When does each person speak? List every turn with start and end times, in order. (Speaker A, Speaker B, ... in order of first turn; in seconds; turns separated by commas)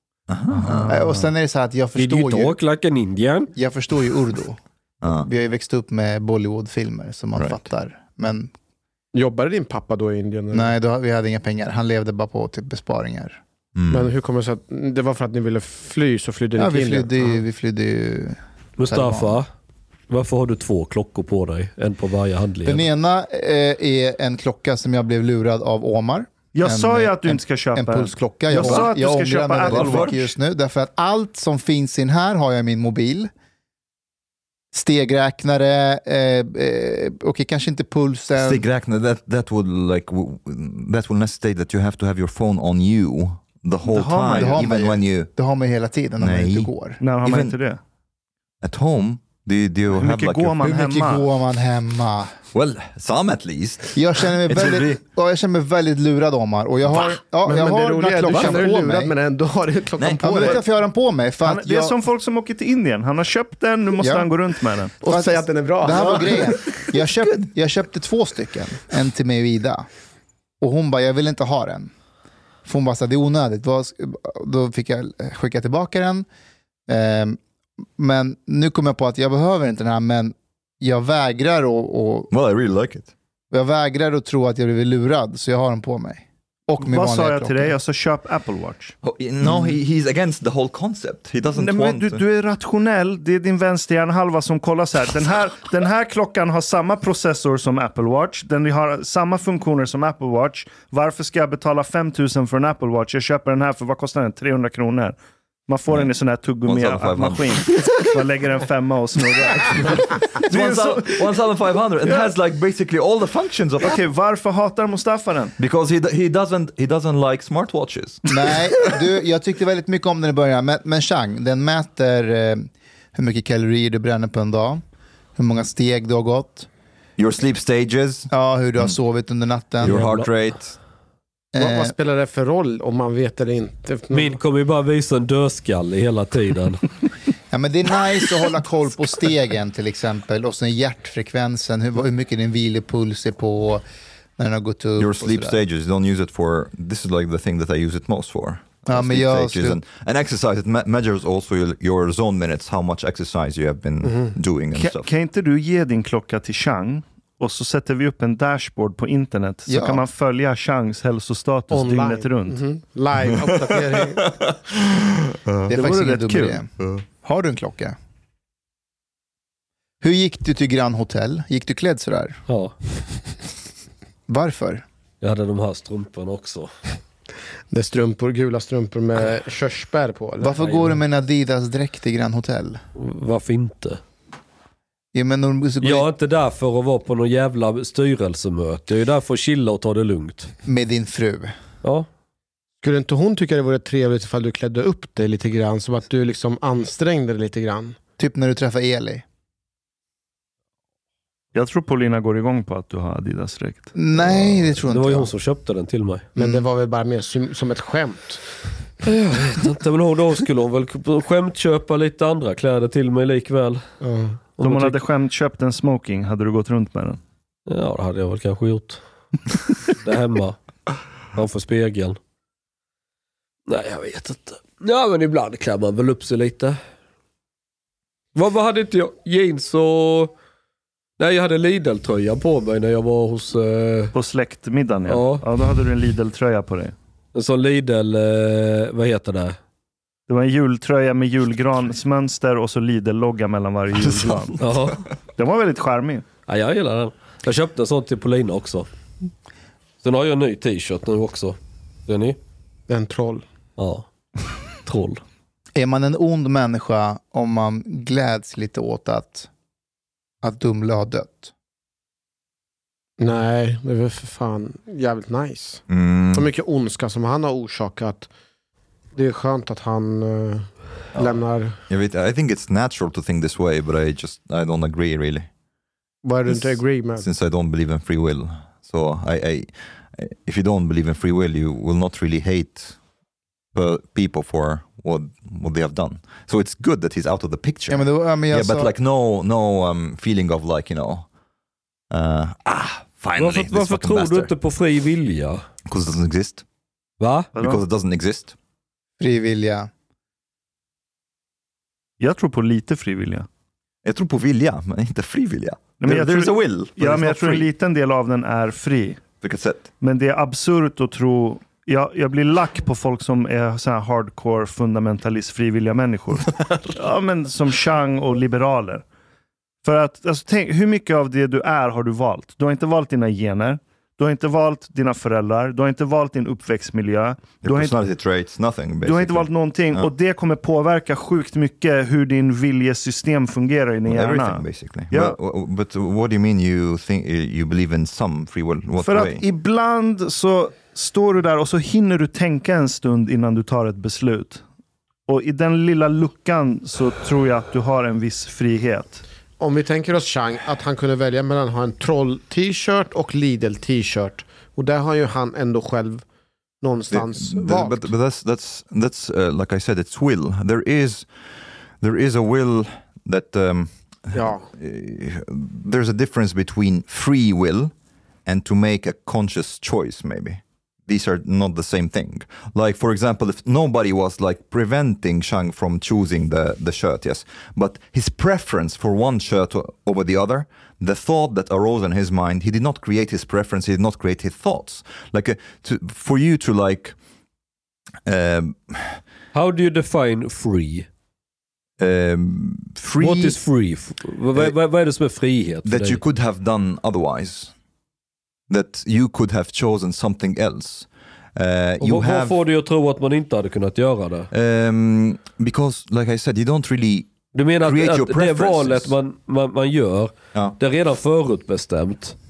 Speaker A: 0.3-1.0, Speaker B: 0.5-1.3, Speaker C: 0.9-2.5, Speaker D: 1.9-3.5, Speaker C: 3.5-8.5, Speaker A: 5.0-5.3, Speaker E: 9.1-10.7, Speaker C: 10.5-13.4, Speaker A: 13.7-14.1, Speaker E: 13.9-17.4, Speaker C: 16.6-19.4, Speaker D: 18.8-19.5, Speaker D: 20.1-22.8, Speaker C: 22.6-33.3, Speaker B: 26.5-30.2, Speaker A: 28.6-28.9, Speaker A: 29.7-30.3, Speaker C: 34.7-38.6, Speaker A: 38.4-45.3, Speaker B: 43.8-44.6, Speaker C: 44.3-47.0, Speaker A: 46.2-46.7, Speaker B: 47.0-47.8, Speaker A: 47.2-47.5, Speaker A: 48.6-50.6, Speaker B: 49.9-51.3, Speaker C: 50.6-52.3, Speaker A: 52.5-54.9, Speaker C: 53.9-59.1, Speaker E: 57.0-60.6, Speaker A: 60.0-60.6, Speaker C: 60.2-61.9, Speaker B: 61.4-65.0, Speaker C: 64.0-64.3, Speaker E: 65.0-66.6, Speaker C: 65.0-69.9, Speaker C: 70.6-71.9, Speaker C: 72.6-76.2, Speaker C: 76.9-77.4, Speaker C: 78.0-82.3, Speaker A: 82.3-83.1, Speaker C: 83.5-87.8, Speaker B: 86.8-88.9, Speaker A: 89.0-92.2, Speaker C: 89.4-89.8, Speaker B: 91.5-111.4, Speaker A: 106.6-108.0, Speaker A: 109.7-114.0, Speaker B: 112.0-112.3, Speaker B: 113.8-115.5, Speaker A: 115.6-118.9, Speaker C: 118.3-124.8, Speaker C: 125.3-126.7, Speaker A: 127.2-128.3, Speaker C: 128.3-130.0, Speaker A: 129.8-130.8, Speaker D: 129.8-130.3, Speaker C: 131.5-131.9, Speaker E: 131.6-134.3, Speaker D: 134.1-136.8, Speaker C: 137.5-143.8, Speaker C: 144.4-145.6, Speaker A: 145.0-155.1, Speaker C: 148.8-149.8, Speaker E: 154.0-154.3, Speaker B: 154.7-162.6, Speaker C: 159.7-160.0, Speaker E: 161.7-164.3, Speaker A: 163.2-165.7, Speaker C: 165.7-166.7, Speaker B: 165.7-166.6, Speaker C: 167.2-167.9, Speaker C: 170.0-172.4, Speaker D: 172.5-172.7, Speaker C: 174.3-174.8, Speaker D: 175.2-176.7, Speaker E: 177.7-180.8, Speaker C: 180.4-182.8, Speaker D: 182.9-184.0, Speaker C: 185.1-186.1, Speaker D: 185.8-190.5, Speaker C: 190.7-191.5, Speaker E: 192.8-198.0, Speaker C: 198.2-199.2, Speaker B: 201.5-203.9, Speaker C: 203.9-205.3, Speaker D: 204.4-206.3, Speaker E: 206.3-208.4, Speaker D: 209.0-213.8, Speaker E: 214.0-214.4, Speaker D: 214.6-215.0, Speaker B: 214.6-217.2, Speaker D: 217.7-219.0, Speaker D: 219.9-220.6, Speaker D: 221.3-222.2, Speaker D: 223.7-226.8, Speaker D: 228.3-230.3, Speaker D: 231.2-234.1, Speaker B: 234.1-236.9, Speaker D: 235.1-235.4, Speaker D: 237.3-239.6, Speaker B: 240.3-244.6, Speaker A: 244.0-244.6, Speaker D: 244.6-245.0, Speaker B: 245.4-246.2, Speaker D: 246.5-248.9, Speaker D: 250.0-252.4, Speaker E: 252.9-253.4, Speaker D: 253.8-254.1, Speaker D: 254.8-255.2, Speaker C: 255.8-259.5, Speaker C: 260.4-261.5, Speaker E: 263.2-265.8, Speaker A: 265.9-266.5, Speaker E: 266.3-268.3, Speaker E: 269.1-271.8, Speaker A: 271.9-275.5, Speaker E: 276.2-277.2, Speaker A: 276.5-283.0, Speaker A: 283.7-291.3, Speaker C: 287.9-288.9, Speaker A: 292.1-294.5, Speaker D: 293.4-295.6, Speaker A: 295.9-296.6, Speaker D: 297.2-297.5, Speaker B: 297.5-297.8, Speaker A: 297.6-298.5, Speaker C: 299.2-299.9, Speaker B: 302.2-303.5, Speaker A: 304.0-307.7, Speaker B: 306.0-309.2, Speaker A: 309.4-309.9, Speaker B: 310.0-319.0, Speaker B: 319.8-328.0, Speaker A: 327.6-330.1, Speaker B: 329.0-335.4, Speaker A: 334.1-339.4, Speaker B: 339.0-344.6, Speaker B: 345.3-349.2, Speaker E: 349.6-356.2, Speaker E: 356.8-358.1, Speaker A: 357.1-361.3, Speaker A: 362.0-367.9, Speaker E: 364.3-364.7, Speaker A: 368.4-387.1, Speaker A: 388.2-389.2, Speaker D: 389.5-391.1, Speaker A: 392.0-393.6, Speaker D: 393.2-396.2, Speaker A: 395.8-397.7, Speaker A: 398.7-402.6, Speaker D: 402.0-404.5, Speaker A: 404.5-407.3, Speaker D: 407.5-412.4, Speaker A: 407.8-409.1